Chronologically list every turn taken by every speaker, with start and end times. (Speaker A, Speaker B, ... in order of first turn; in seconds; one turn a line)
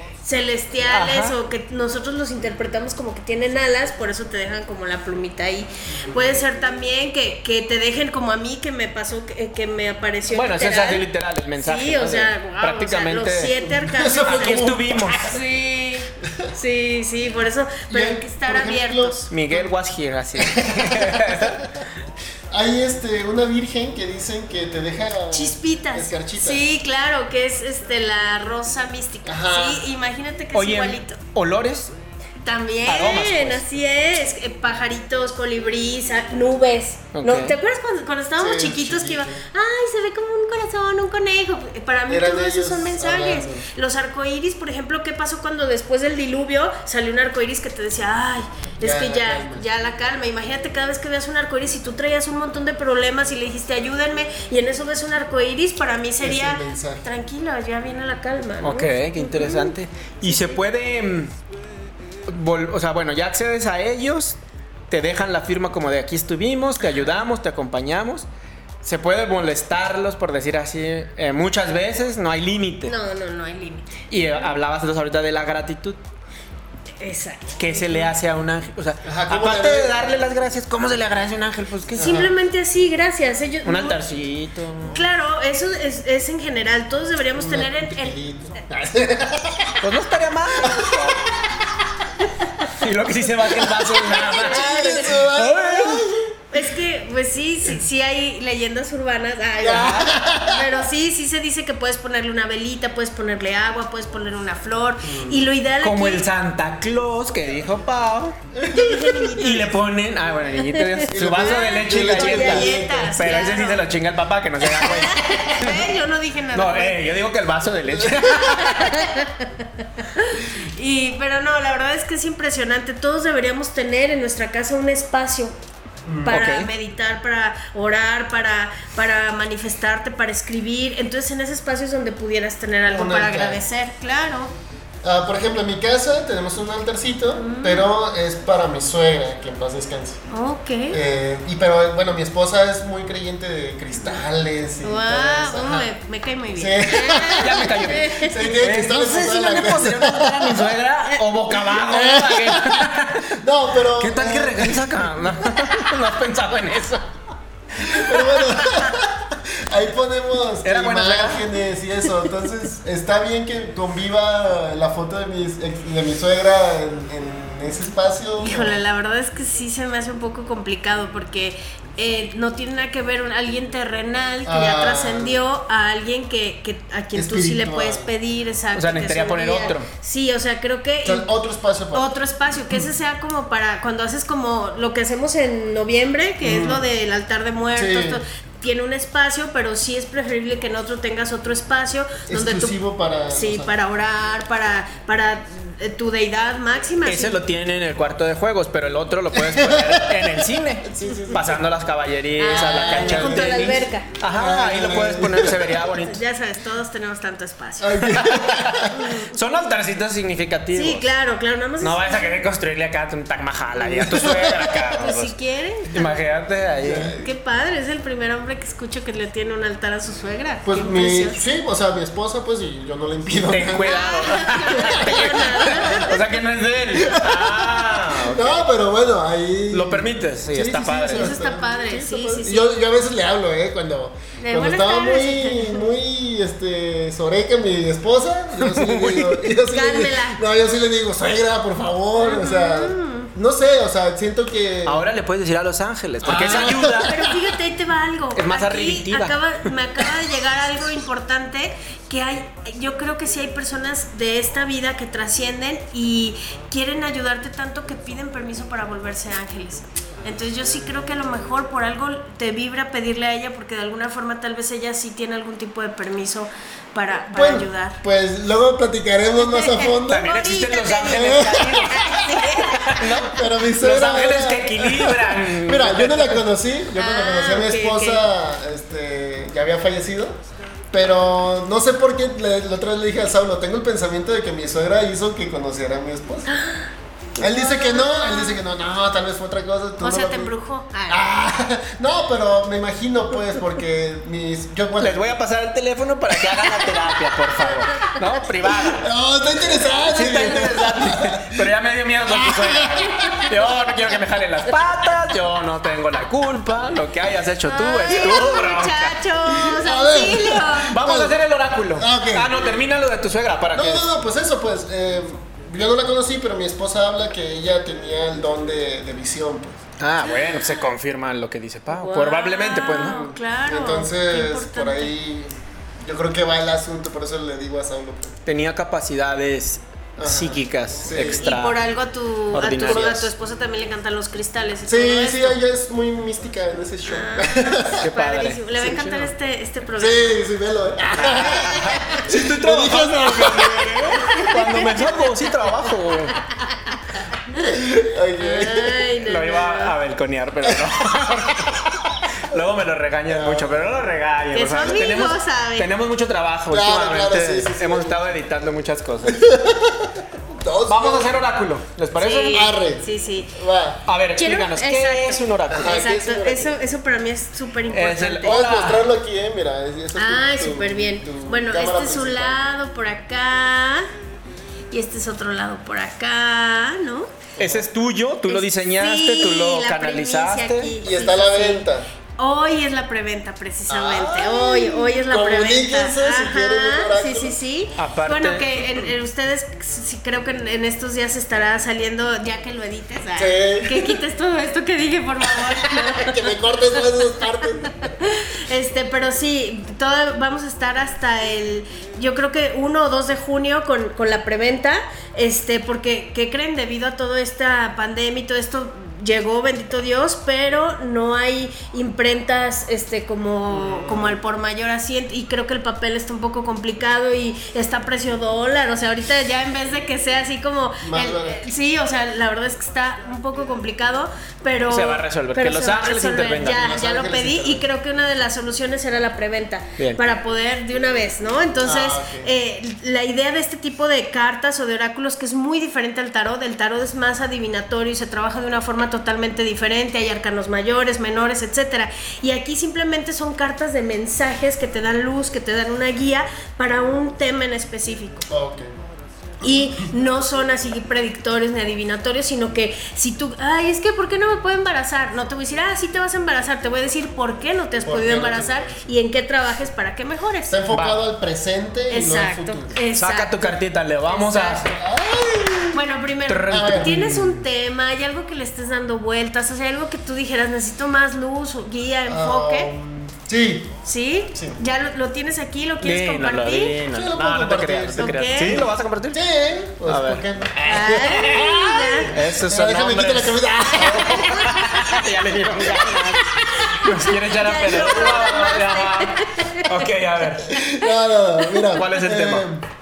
Speaker A: 0.2-11.1
Speaker B: 0.8-1.4
Speaker B: 10.3-13.5
Speaker A: 11.6-19.3
Speaker C: 13.7-15.0
Speaker B: 14.2-15.3
Speaker C: 17.9-19.7
Speaker B: 19.3-21.7
Speaker C: 20.4-21.6
Speaker C: 22.5-26.6
Speaker A: 25.3-31.2
Speaker C: 29.2-29.8
Speaker B: 30.5-31.9
Speaker A: 32.4-59.7
Speaker B: 32.8-33.6
Speaker B: 37.1-37.5
Speaker C: 38.4-39.4
Speaker C: 42.1-43.6
Speaker C: 48.8-49.7
Speaker C: 56.2-57.0
Speaker B: 58.6-61.3
Speaker A: 60.2-60.5
Speaker B: 62.3-64.4
Speaker B: 64.9-68.2
Speaker B: 68.8-72.9
Speaker A: 72.8-74.0
Speaker B: 74.1-76.0
Speaker A: 77.0-78.1
Speaker B: 77.6-82.2
Speaker C: 79.0-80.0
Speaker C: 81.9-82.3
Speaker A: 82.0-84.0
Speaker B: 83.6-85.0
Speaker A: 84.9-88.2
Speaker C: 87.4-89.8
Speaker B: 89.8-91.2
Speaker C: 90.6-91.2
Speaker B: 92.7-96.1
Speaker A: 94.0-95.2
Speaker C: 94.2-96.3
Speaker A: 96.5-106.2
Speaker C: 99.6-100.7
Speaker B: 99.7-100.3
Speaker C: 105.0-105.4
Speaker B: 105.8-108.4
Speaker C: 108.5-109.3
Speaker A: 108.7-109.7
Speaker B: 109.4-115.9
Speaker A: 110.6-113.8
Speaker C: 111.1-113.5
Speaker A: 114.7-117.1
Speaker B: 116.5-119.1
Speaker A: 118.4-125.5
Speaker C: 126.0-126.5
Speaker A: 126.2-134.5
Speaker B: 126.3-126.7
Speaker C: 132.9-133.6
Speaker C: 135.0-140.2
Speaker A: 137.3-137.9
Speaker A: 140.3-141.0
Speaker C: 140.9-145.9
Speaker A: 144.8-148.5
Speaker C: 146.6-150.8
Speaker B: 147.3-153.3
Speaker C: 151.7-155.8
Speaker B: 154.0-157.1
Speaker C: 157.8-168.8
Speaker B: 157.8-158.8
Speaker B: 160.6-161.5
Speaker A: 168.4-181.3
Speaker C: 174.4-175.4
Speaker C: 177.1-178.1
Speaker B: 178.7-179.9
Speaker C: 181.0-182.1
Speaker A: 181.9-192.8
Speaker C: 186.4-186.8
Speaker C: 187.7-188.2
Speaker C: 192.3-193.8
Speaker A: 193.3-197.4
Speaker B: 197.0-206.2
Speaker C: 199.3-200.1
Speaker C: 200.8-201.6
Speaker A: 202.4-204.1
Speaker C: 202.5-205.7
Speaker A: 206.0-208.1
Speaker C: 207.8-209.0
Speaker B: 208.1-211.1
Speaker A: 208.9-209.3
Speaker A: 210.7-212.3
Speaker B: 211.8-215.3
Speaker C: 213.8-214.8
Speaker A: 215.0-216.2
Speaker B: 215.9-217.1
Speaker C: 216.8-217.3
Speaker A: 217.2-221.4
Speaker C: 220.6-224.0
Speaker B: 223.5-228.6
Speaker A: 223.8-226.2
Speaker C: 224.7-226.1
Speaker C: 226.9-245.0
Speaker B: 229.7-231.4
Speaker A: 231.1-232.8
Speaker A: 234.4-235.9
Speaker B: 238.6-239.4
Speaker A: 239.7-240.4
Speaker A: 242.2-243.3
Speaker B: 244.8-247.1
Speaker C: 246.2-247.3
Speaker A: 247.0-268.0
Speaker B: 248.3-249.4
Speaker C: 267.3-270.3
Speaker A: 269.4-273.1
Speaker B: 270.1-276.4
Speaker C: 271.1-272.1
Speaker C: 273.3-280.4
Speaker A: 276.9-278.2
Speaker C: 280.9-286.5
Speaker A: 286.5-288.6
Speaker C: 287.4-290.5
Speaker A: 290.0-291.2
Speaker C: 291.1-295.2
Speaker B: 295.0-299.0
Speaker A: 297.6-298.1
Speaker C: 298.9-301.7
Speaker B: 300.1-309.2
Speaker C: 302.3-303.5
Speaker A: 307.7-310.9
Speaker C: 309.4-311.4
Speaker B: 310.9-314.1
Speaker C: 311.9-312.5
Speaker C: 313.7-319.8
Speaker B: 320.0-323.2
Speaker A: 320.2-320.8
Speaker A: 321.9-325.1
Speaker C: 323.0-328.4
Speaker B: 328.4-331.8
Speaker C: 330.2-331.4
Speaker A: 331.1-335.6
Speaker B: 332.5-333.3
Speaker C: 334.9-338.1
Speaker A: 337.1-340.3
Speaker B: 338.0-339.3
Speaker C: 340.0-344.2
Speaker B: 341.2-346.4
Speaker A: 341.4-342.1
Speaker A: 344.3-345.4
Speaker A: 346.3-347.0
Speaker C: 347.6-349.1
Speaker A: 348.4-349.9
Speaker B: 349.2-359.4
Speaker C: 353.3-353.9
Speaker A: 354.5-355.9
Speaker C: 356.7-358.3
Speaker C: 359.2-361.3
Speaker B: 360.9-362.6
Speaker A: 362.1-363.5
Speaker C: 362.5-364.0
Speaker B: 364.1-366.0
Speaker A: 364.4-368.6
Speaker C: 365.7-366.8
Speaker B: 367.9-369.1
Speaker C: 368.4-372.7
Speaker A: 370.1-374.1
Speaker A: 374.9-377.4
Speaker C: 377.6-377.9
Speaker B: 377.6-381.0
Speaker A: 378.5-381.9
Speaker C: 381.0-382.1
Speaker A: 382.4-396.5
Speaker C: 383.9-387.6
Speaker B: 387.9-389.1
Speaker C: 393.4-394.2
Speaker C: 395.7-398.2
Speaker A: 398.2-448.5
Speaker C: 413.7-414.4
Speaker C: 421.0-421.6
Speaker B: 424.9-426.8
Speaker C: 426.7-427.9
Speaker C: 431.8-432.5
Speaker C: 448.5-448.9
Speaker A: 449.6-460.8
Speaker C: 458.0-459.1
Speaker C: 460.7-462.9
Speaker B: 460.9-461.2
Speaker A: 462.1-464.8
Speaker B: 463.1-464.9
Speaker C: 464.8-466.0
Speaker A: 465.9-472.9
Speaker B: 466.5-467.6
Speaker C: 466.7-467.2
Speaker C: 472.2-473.9
Speaker A: 474.0-476.9
Speaker B: 476.0-479.4
Speaker C: 477.1-484.9
Speaker A: 478.2-478.8
Speaker B: 480.1-480.4
Speaker A: 480.9-482.3
Speaker B: 482.3-490.7
Speaker C: 485.8-486.1
Speaker A: 486.6-490.1
Speaker C: 490.7-492.9
Speaker A: 491.6-492.0
Speaker B: 491.9-492.7